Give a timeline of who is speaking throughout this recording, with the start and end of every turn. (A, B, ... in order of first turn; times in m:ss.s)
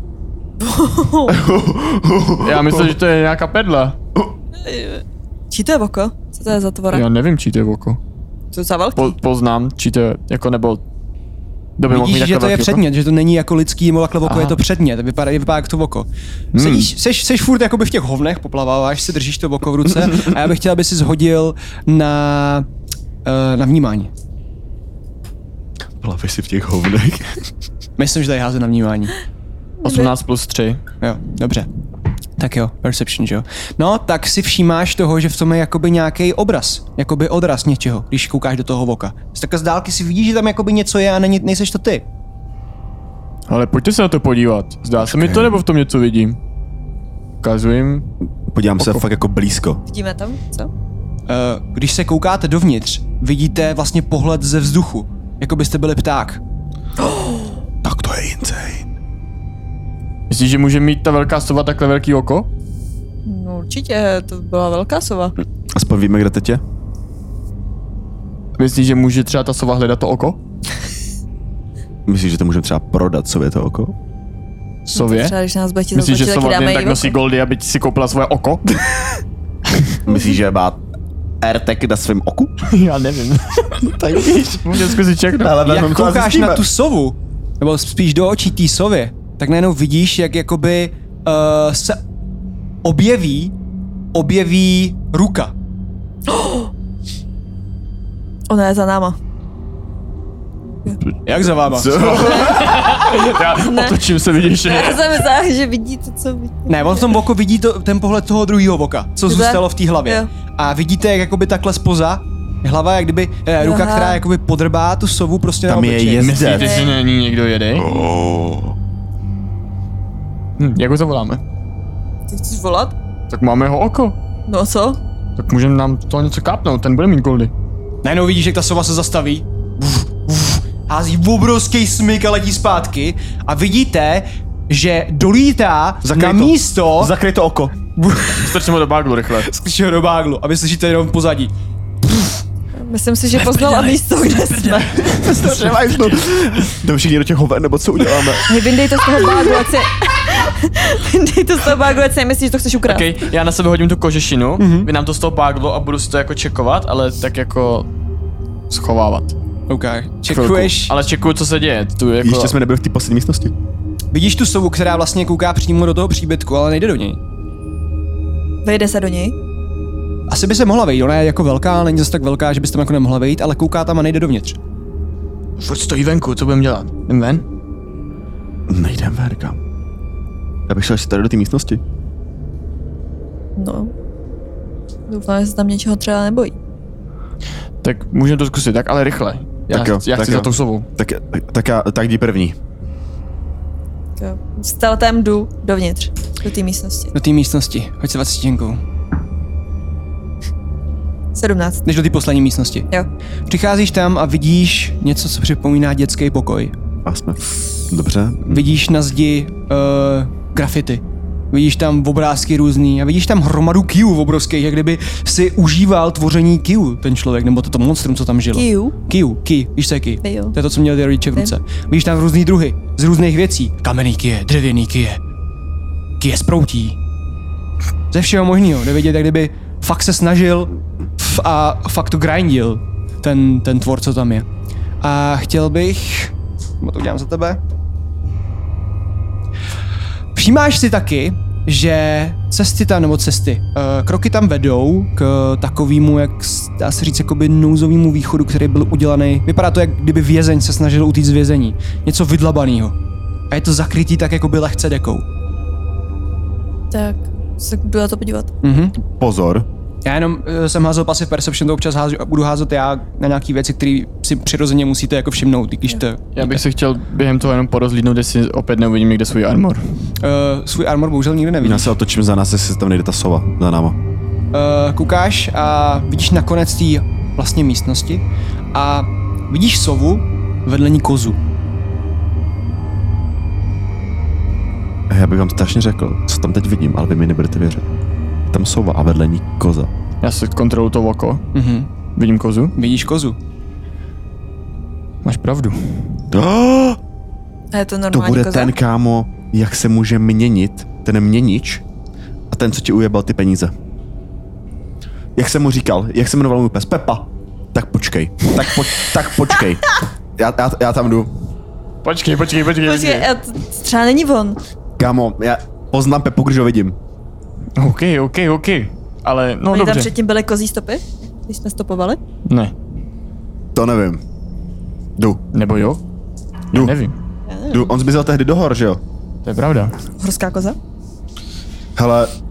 0:00.6-0:01.4 A
0:01.3-0:03.0 B
0:02.4-0:04.0 C
0:04.6-0:07.0 A
0:06.9-0:08.0 C
0:08.5-0:09.1 A
0:08.9-0:10.8 C
0:11.8-0:12.8 C
0:11.9-0:22.6 D
0:14.2-0:14.6 C
0:16.5-0:16.9 C
0:23.2-0:24.1 D
0:26.0-0:27.4 B
0:28.0-0:29.1 D
0:29.8-0:30.1 A
0:29.8-0:30.8 C
0:31.0-0:31.7 D
0:32.4-0:42.0 D
0:43.5-0:46.4 C
0:45.0-0:45.6 B
0:47.4-0:48.1 C
0:48.5-0:49.8 B
0:48.8-0:49.0 C
0:49.9-0:50.7 A
0:51.3-0:56.4 D
0:57.8-0:58.9 B
1:00.3-1:02.5 C
1:03.2-1:05.3 A
1:05.7-1:06.6 B
1:08.6-1:10.4 C
1:12.0-1:13.9 B
1:14.9-1:15.3 C
1:14.9-1:17.1 A
1:15.9-1:19.1 C
1:20.0-1:20.8 B
1:21.4-1:22.5 B
1:22.7-1:25.6 C
1:23.8-1:26.6 B
1:25.6-1:32.0 D
1:32.8-1:33.5 D
1:34.1-1:35.5 D
1:36.3-1:36.7 A
1:38.5-1:39.2 A
1:41.2-1:42.4 D
1:41.7-1:42.9 B
1:42.0-1:45.2 C
1:42.2-1:42.6 A
1:43.5-1:44.0 A
1:44.6-1:47.2 A
1:46.7-1:56.3 D
1:49.3-1:50.3 A
1:53.6-1:54.2 A
1:55.7-1:56.8 B
1:56.2-1:57.9 C
1:56.5-1:57.0 A
1:57.8-1:58.7 B
2:00.6-2:01.4 C
2:02.3-2:02.9 A
2:03.3-2:04.2 C
2:04.5-2:05.0 A
2:05.4-2:07.5 C
2:08.0-2:17.1 D
2:16.0-2:17.7 B
2:18.0-2:18.6 D
2:18.3-2:19.5 C
2:19.4-2:21.5 D
2:22.8-2:25.1 A
2:23.4-2:23.9 C
2:24.5-2:26.3 C
2:25.0-2:28.6 B
2:28.5-2:33.0 A
2:32.8-2:37.9 C
2:34.6-2:34.9 D
2:38.7-2:39.4 C
2:39.7-2:40.9 D
2:40.3-2:42.6 C
2:42.2-2:43.5 B
2:44.1-2:47.2 D
2:48.6-2:49.3 A
2:50.3-2:54.6 D
2:55.6-2:57.5 C
2:58.7-2:59.6 B
3:00.7-3:01.8 B
3:03.6-3:03.9 A
3:05.1-3:06.5 A
3:07.8-3:10.8 C
3:09.7-3:12.6 B
3:14.2-3:17.1 A
3:17.1-3:18.8 D
3:21.3-3:21.8 A
3:21.8-3:22.9 D
3:23.5-3:26.7 D
3:27.0-3:28.8 B
3:28.5-3:45.2 D
3:38.5-3:39.0 A
3:40.2-3:40.5 A
3:46.2-3:47.0 D
3:48.1-3:54.4 D
3:55.0-3:57.6 D
4:00.3-4:13.0 D
4:13.5-4:15.2 D
4:16.9-4:18.5 A
4:18.6-4:19.0 D
4:19.2-4:19.7 B
4:20.0-4:26.5 D
4:26.4-4:29.8 C
4:30.2-4:31.9 D
4:31.6-4:34.0 B
4:34.5-4:38.2 D
4:38.7-4:41.4 D
4:45.1-4:47.9 B
4:48.5-4:49.9 B
4:50.2-4:51.5 C
4:51.5-4:51.9 D
4:52.2-4:52.7 C
4:52.8-4:53.4 D
4:55.2-4:56.2 C
4:56.3-4:57.0 B
4:57.7-4:58.7 A
4:58.1-5:01.8 B
5:02.5-5:03.7 B
5:05.4-5:11.3 B
5:12.0-5:13.3 C
5:12.8-5:14.6 A
5:15.0-5:17.0 B
5:17.8-5:20.1 C
5:19.7-5:22.2 A
5:22.5-5:22.7 C
5:23.7-5:24.2 B
5:25.2-5:25.4 B
5:25.5-5:26.0 C
5:26.7-5:27.1 C
5:27.5-5:27.9 A
5:27.7-5:29.0 B
5:29.4-5:29.9 C
5:30.2-5:30.8 A
5:32.0-5:32.3 B